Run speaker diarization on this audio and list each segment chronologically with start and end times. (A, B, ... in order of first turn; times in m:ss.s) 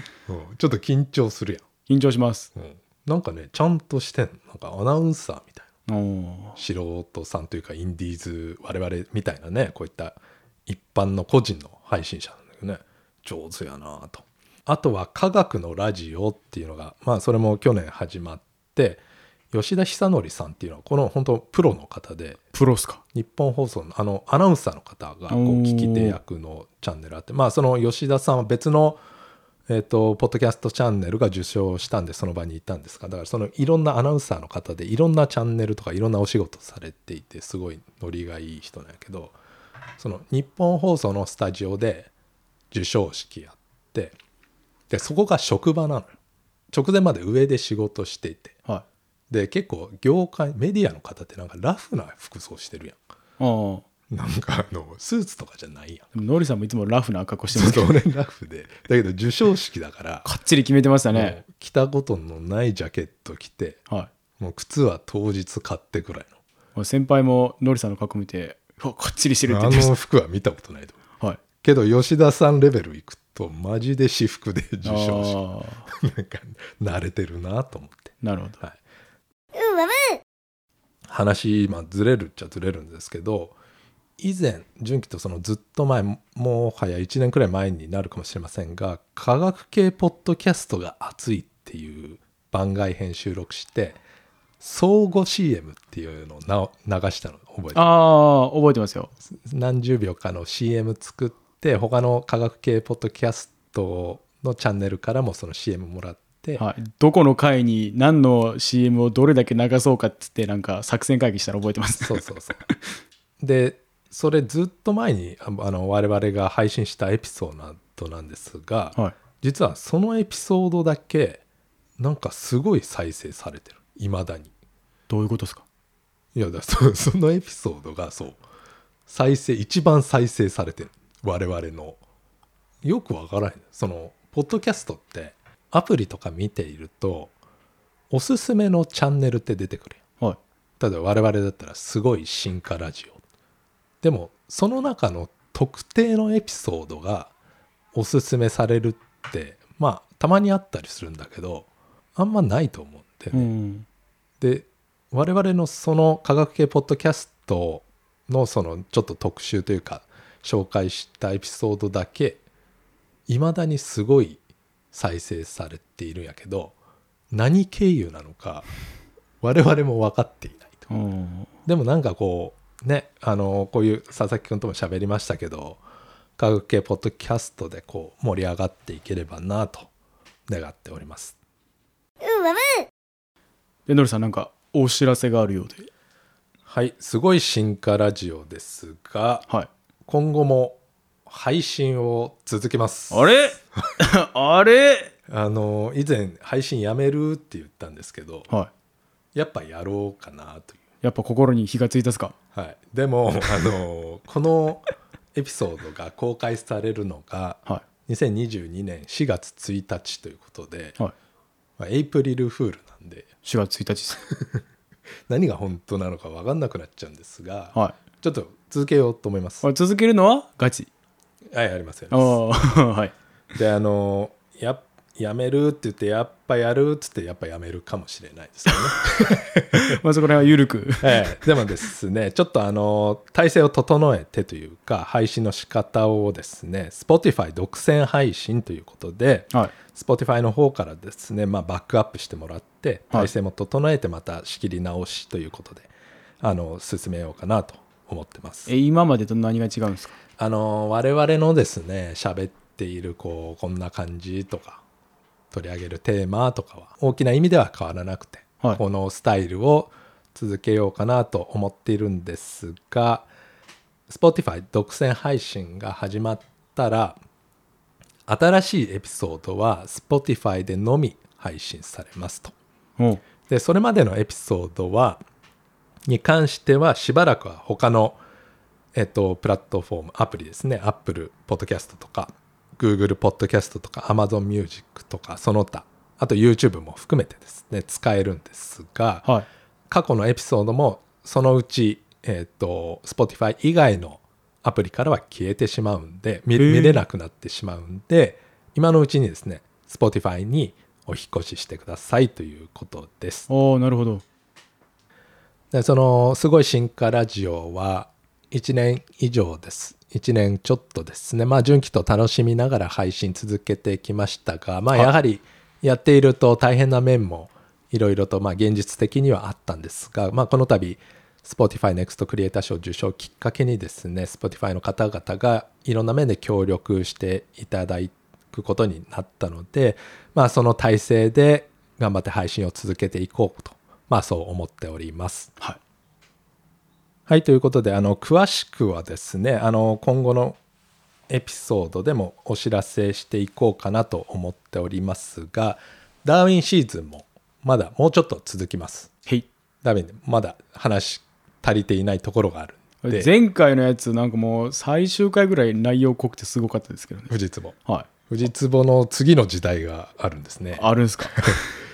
0:00.3-0:01.6 A
0:01.9-0:02.5 B
0:02.5-0:05.6 A
0:05.9-0:06.6 B
0:06.6-0:22.4 A
0:22.5-0:23.0 B
0:23.1-0:29.0 A
0:25.3-0:26.2 B
0:29.7-0:39.4 A
0:40.0-0:42.1 A
0:42.7-0:44.1 A
0:44.9-0:46.1 A
0:46.7-0:48.6 A
0:49.3-0:53.0 A
0:53.4-0:53.8 B
0:54.1-0:56.1 A
0:56.1-0:57.9 B
0:57.5-1:00.3 A
1:00.2-1:01.4 B
1:01.1-1:03.8 A
1:04.4-1:06.3 A
1:06.7-1:09.9 B
1:09.5-1:11.0 A
1:11.6-1:18.8 A
1:14.8-1:15.8 B
1:18.2-1:18.6 B
1:21.1-1:23.6 A
1:24.2-1:34.0 A
1:34.6-1:37.9 A
1:37.7-1:39.1 B
1:39.3-1:46.6 A
1:46.6-1:52.2 B
1:52.0-1:52.6 A
1:53.4-2:01.4 A
2:02.0-2:04.5 A
2:05.1-2:05.6 B
2:06.3-2:08.4 A
2:09.1-2:12.0 A
2:12.8-2:17.3 A
2:18.1-2:20.0 A
2:20.8-2:23.2 A
2:24.0-2:27.3 A
2:27.9-2:33.5 A
2:33.3-2:33.8 B
2:34.4-2:42.4 A
2:43.3-2:44.4 A
2:44.9-2:46.8 A
2:47.3-2:48.7 A
2:49.4-2:50.8 A
2:50.9-2:51.5 B
2:51.6-2:55.8 A
2:56.4-2:59.9 A
3:00.5-3:01.4 A
3:03.9-3:05.9 B
3:06.6-3:09.4 A
3:10.1-3:13.4 A
3:13.1-3:15.1 B
3:15.3-3:18.5 A
3:19.3-3:20.8 A
3:21.0-3:22.3 B
3:22.5-3:31.0 A
3:31.8-3:33.3 A
3:33.4-3:34.2 B
3:34.2-3:34.6 A
3:35.3-3:39.7 A
3:39.6-3:40.9 B
3:41.5-3:42.4 A
3:42.1-3:43.1 B
3:43.5-3:50.0 A
3:49.1-3:51.4 B
3:51.0-4:08.7 A
4:08.7-4:10.1 B
4:10.4-4:14.8 A
4:15.5-4:23.3 A
4:24.1-4:27.2 A
4:28.3-4:32.5 A
4:33.5-4:35.2 A
4:36.1-4:38.2 A
4:38.9-4:49.3 A
4:49.9-5:03.5 A
4:56.6-4:57.0 B
5:03.5-5:04.2 B
5:05.7-5:35.6 A
5:37.3-5:40.6 A
5:41.3-5:49.1 A
5:49.8-5:53.3 A
5:53.0-5:57.3 B
5:57.3-5:57.8 A
5:58.3-6:01.6 A
6:00.8-6:01.6 B